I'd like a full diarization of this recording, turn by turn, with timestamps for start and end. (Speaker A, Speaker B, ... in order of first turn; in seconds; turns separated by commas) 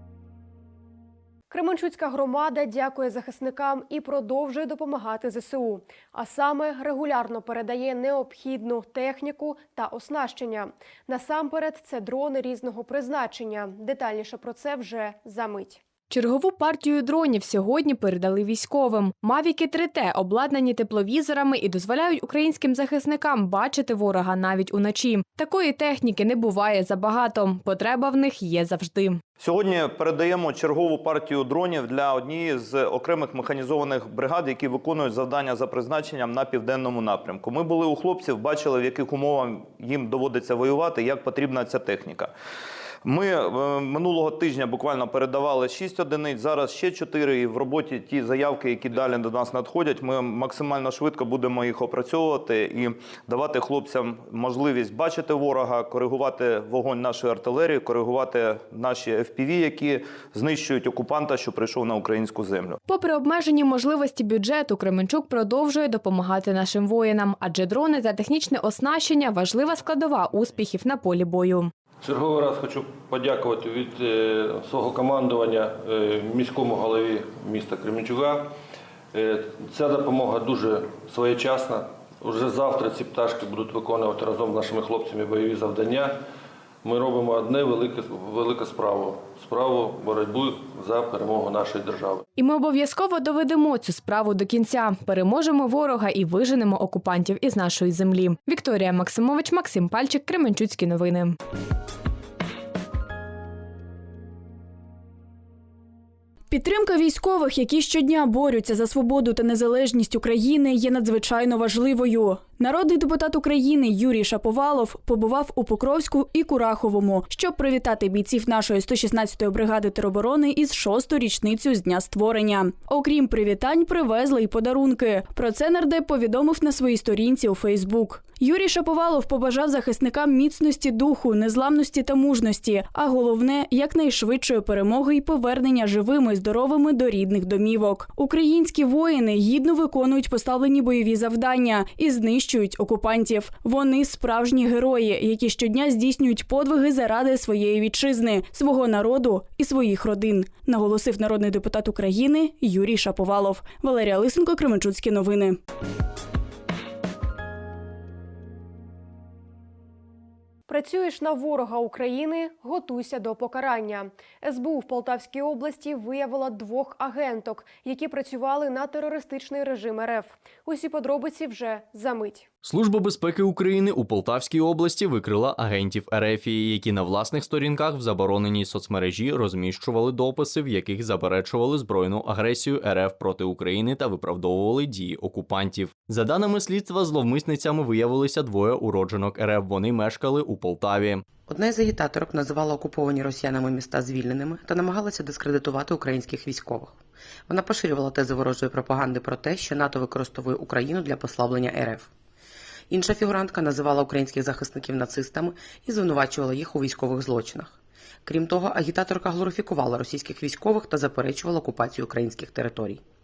Speaker A: 1.5-15.8, Speaker B: 16.1-29.2, Speaker C: 29.4-42.3, Speaker C: 43.0-62.8, Speaker B: 62.9-71.7, Speaker D: 72.0-78.5, Speaker D: 79.1-86.2, Speaker D: 86.8-92.2, Speaker B: 92.4-101.4, Speaker E: 106.5-155.6, Speaker A: 160.7-172.5, Speaker F: 172.6-191.2, Speaker G: 191.5-202.1, Speaker G: 202.9-213.0